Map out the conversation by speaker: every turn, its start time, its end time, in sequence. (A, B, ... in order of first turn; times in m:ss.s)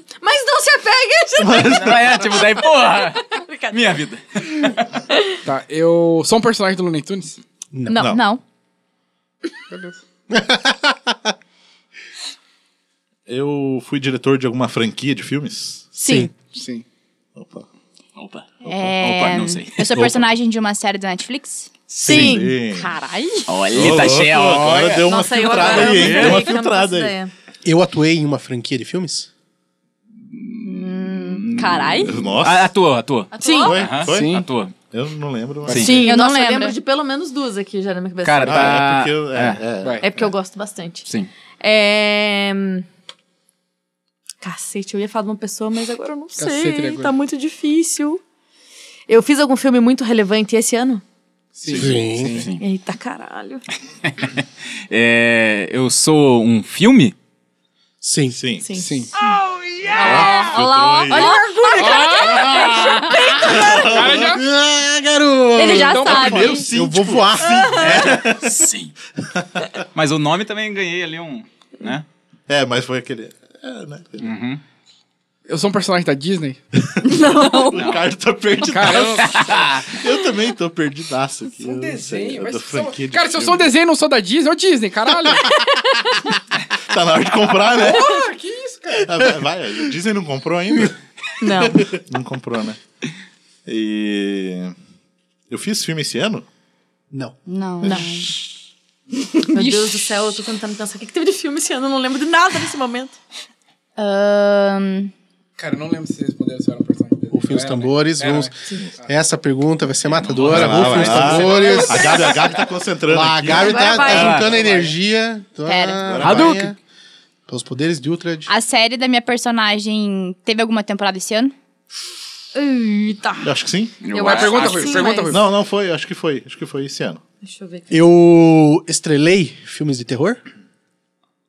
0:00.2-0:02.0 A
0:01.4-0:02.5 B
0:01.6-0:04.9 C
0:03.4-0:03.8 A
0:05.4-0:07.4 D
0:07.7-0:08.1 E
0:07.9-0:08.2 A
0:07.9-0:08.2 B
0:08.1-0:08.4 F
0:10.3-0:11.3 E
0:13.3-0:15.9 B
0:16.0-0:16.3 A
0:16.0-0:16.3 E
0:16.5-0:16.8 D
0:17.4-0:17.7 B
0:18.2-0:20.1 C
0:18.6-0:23.5 F
0:19.9-0:20.2 B
0:22.0-0:22.6 A
0:22.0-0:22.9 B
0:23.5-0:26.5 C
0:23.7-0:27.1 B
0:25.0-0:27.3 A
0:27.6-0:29.3 E
0:30.3-0:34.7 C
0:30.6-0:32.2 F
0:32.0-0:32.7 B
0:33.3-0:34.0 F
0:33.4-0:33.7 A
0:33.6-0:34.4 B
0:34.1-0:34.5 D
0:34.9-0:35.9 B
0:35.7-0:35.9 C
0:35.7-0:38.8 A
0:35.9-0:36.8 F
0:38.2-0:39.6 C
0:38.4-0:40.3 B
0:39.8-0:40.1 D
0:40.0-0:41.0 A
0:41.6-0:42.8 A
0:44.4-0:48.2 A
0:46.4-0:47.1 D
0:49.1-0:51.0 A
0:51.6-0:52.5 D
0:51.6-0:52.5 B
0:51.7-0:52.4 E
0:52.6-0:53.6 A
0:54.0-0:57.1 C
0:58.0-0:58.4 E
0:58.3-0:58.7 B
0:58.6-0:58.9 A
0:58.8-0:59.1 D
0:59.9-1:00.5 A
0:59.9-1:03.8 F
1:00.0-1:01.4 B
1:01.1-1:03.9 A
1:01.8-1:02.4 D
1:02.3-1:04.4 B
1:03.8-1:04.4 D
1:04.2-1:07.8 E
1:05.6-1:06.6 F
1:05.7-1:05.9 A
1:05.9-1:06.6 D
1:05.9-1:08.5 B
1:07.4-1:07.8 A
1:07.7-1:08.9 C
1:09.3-1:09.8 B
1:09.9-1:12.0 C
1:12.5-1:14.3 B
1:14.2-1:14.6 C
1:15.5-1:16.6 D
1:16.8-1:23.7 B
1:17.0-1:17.9 F
1:17.7-1:18.0 C
1:18.6-1:19.5 D
1:19.2-1:19.9 C
1:21.6-1:25.5 D
1:26.9-1:28.2 B
1:27.6-1:29.2 D
1:29.0-1:32.8 B
1:31.4-1:31.9 A
1:33.6-1:34.7 B
1:35.5-1:36.4 B
1:37.1-1:38.0 E
1:37.4-1:38.3 F
1:37.8-1:38.1 A
1:39.5-1:40.1 F
1:39.5-1:43.2 A
1:44.0-1:45.1 F
1:45.6-1:49.1 D
1:47.3-1:48.5 E
1:49.0-1:52.2 E
1:50.1-1:54.9 B
1:50.3-1:52.4 D
1:53.1-1:56.8 E
1:53.5-1:54.4 A
1:54.1-1:54.5 C
1:54.6-1:54.8 D
1:55.6-1:56.1 F
1:56.0-1:56.6 B
1:56.2-1:56.7 C
1:57.5-1:58.5 E
1:58.5-2:01.5 F
2:02.6-2:03.5 A
2:03.4-2:04.0 B
2:04.0-2:05.0 C
2:04.1-2:05.4 A
2:04.1-2:05.5 D
2:05.3-2:07.2 B
2:07.4-2:07.9 A
2:07.9-2:10.4 E